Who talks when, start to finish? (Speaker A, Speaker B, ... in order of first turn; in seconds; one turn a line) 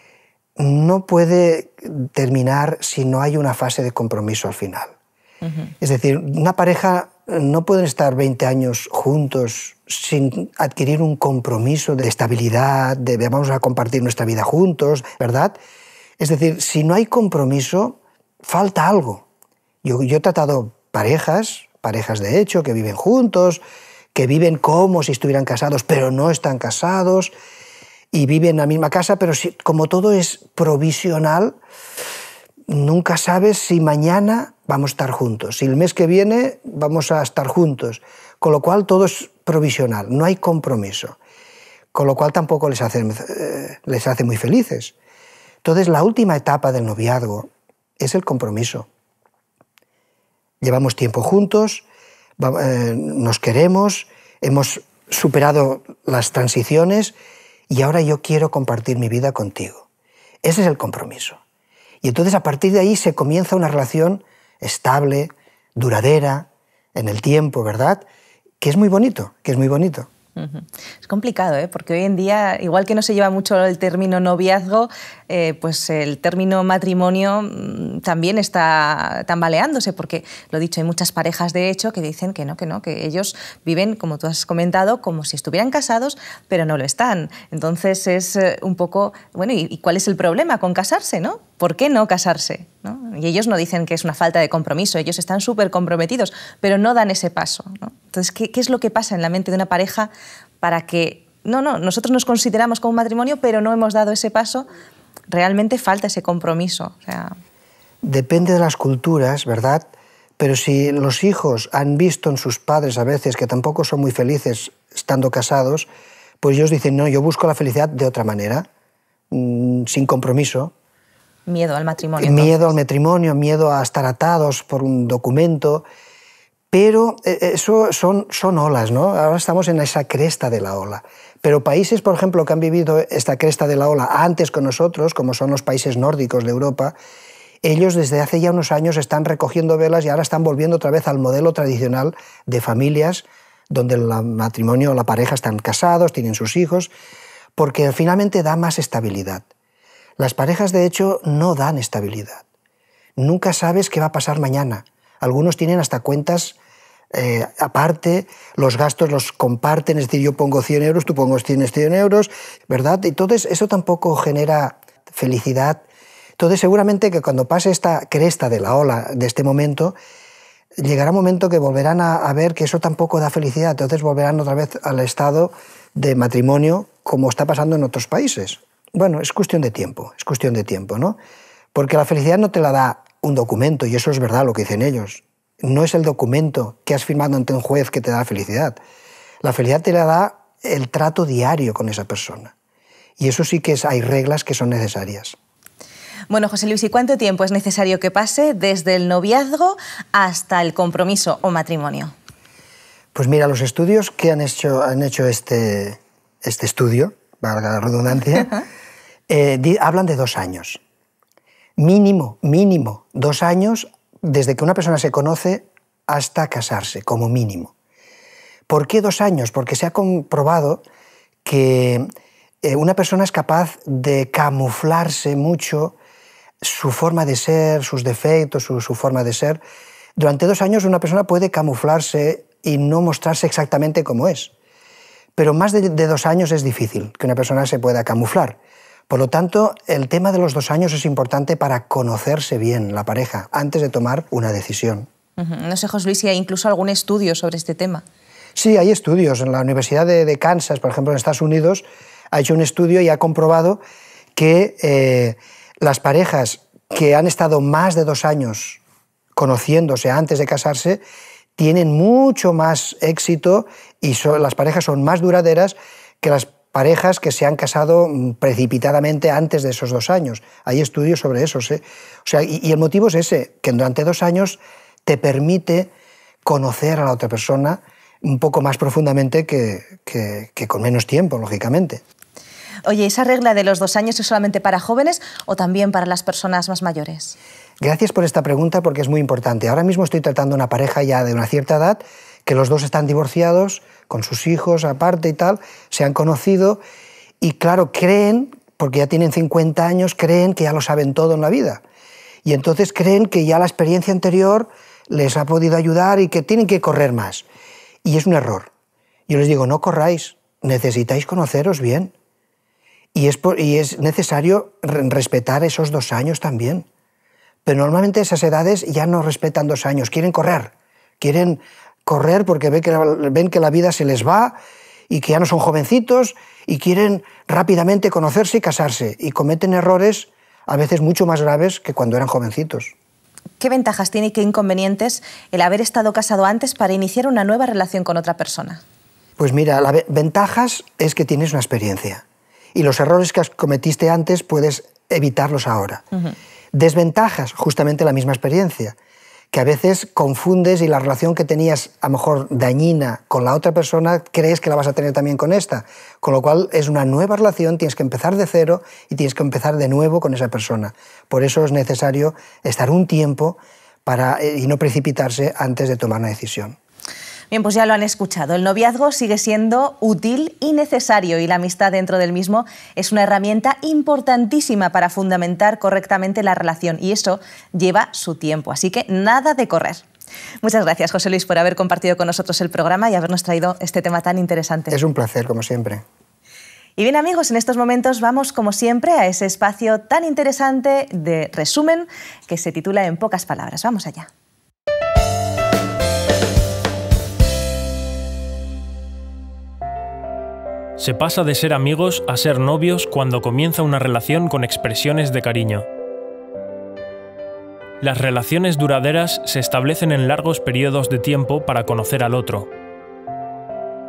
Speaker A: 0.6-4.9
Speaker B: 5.4-5.7
Speaker A: 5.8-15.6
Speaker A: 16.2-19.2
Speaker A: 19.8-23.6
Speaker A: 24.1-27.3
Speaker A: 28.1-31.6
Speaker A: 32.7-41.2
Speaker A: 41.9-44.9
Speaker A: 45.6-48.9
Speaker A: 50.6-51.8
Speaker A: 52.4-57.1
Speaker A: 57.7-59.9
Speaker A: 60.4-61.4
Speaker A: 62.0-68.0
Speaker A: 68.6-70.1
Speaker B: 70.3-100.1
Speaker B: 100.6-104.7
Speaker B: 105.3-107.3
Speaker A: 108.0-115.9
Speaker A: 116.4-118.7
Speaker A: 119.3-120.7
Speaker B: 121.5-122.7
Speaker A: 122.2-125.8
Speaker A: 126.7-136.9
Speaker A: 137.6-146.9
Speaker A: 147.6-149.4
Speaker A: 150.2-152.4
Speaker A: 153.2-156.6
Speaker A: 157.1-165.8
Speaker A: 166.4-170.0
Speaker A: 170.8-181.2
Speaker A: 181.7-188.8
Speaker A: 189.4-192.5
Speaker A: 193.2-195.3
Speaker B: 196.3-202.1
Speaker A: 203.1-208.5
Speaker A: 209.3-210.8
Speaker A: 211.8-217.7
Speaker A: 218.7-220.8
Speaker A: 221.4-222.1
Speaker A: 222.6-225.9
Speaker A: 226.6-229.6
Speaker A: 230.2-234.5
Speaker A: 235.3-238.6
Speaker A: 239.1-245.1
Speaker B: 245.4-248.0
Speaker A: 248.6-253.8
Speaker A: 254.3-258.8
Speaker A: 259.4-261.0
Speaker A: 261.6-275.9
Speaker A: 276.4-282.0
Speaker B: 282.9-287.4
Speaker A: 287.8-296.8
Speaker A: 297.4-301.8
Speaker A: 302.4-307.4
Speaker A: 308.0-308.7
Speaker A: 309.3-312.1
Speaker A: 313.1-316.9
Speaker A: 317.6-324.6
Speaker A: 325.1-332.9
Speaker B: 333.6-338.8
Speaker A: 339.4-346.0
Speaker A: 346.7-348.9
Speaker A: 349.5-366.8
Speaker B: 367.5-380.0
Speaker B: 380.6-385.0
Speaker A: 384.9-386.0
Speaker B: 387.0-394.3
Speaker C: 401.0-405.9
Speaker C: 408.0-412.7